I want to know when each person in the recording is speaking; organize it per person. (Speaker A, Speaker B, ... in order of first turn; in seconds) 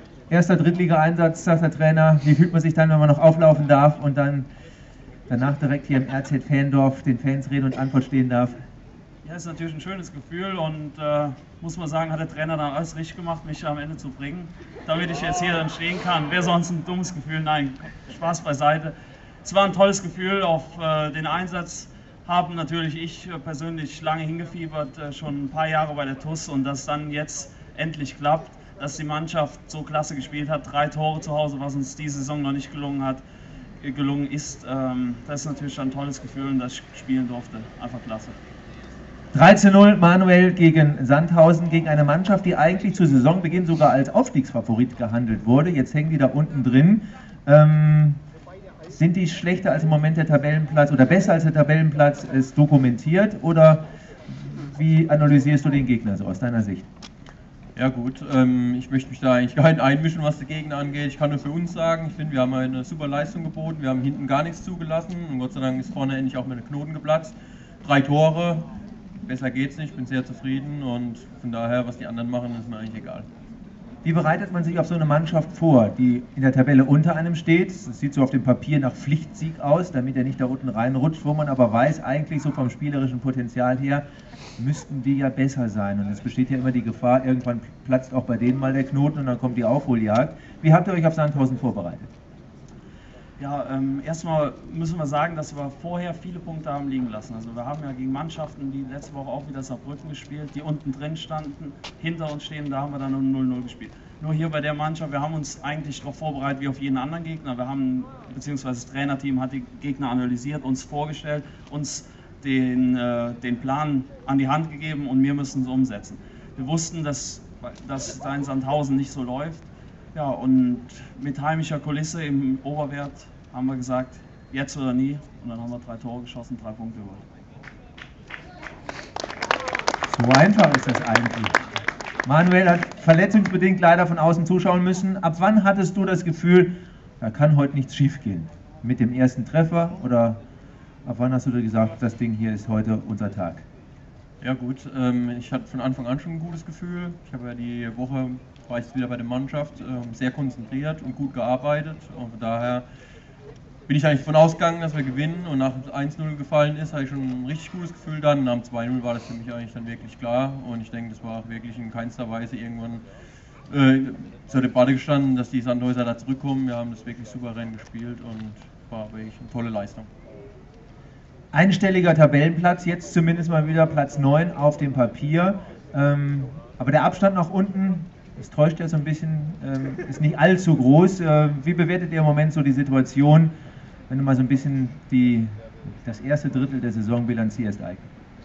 Speaker A: 0.3-4.5, 5.3-8.6, 39.3-48.2, 48.9-56.9, 74.0-84.0, 84.6-92.1, 130.1-131.6, 132.2-140.4, 141.1-143.7, 171.5-183.5, 184.1-188.1
Speaker B: 9.2-33.2, 33.8-38.4, 93.4-127.2
Speaker C: 57.8-68.7, 69.3-73.3, 144.4-152.8, 153.9-163.0, 163.7-170.1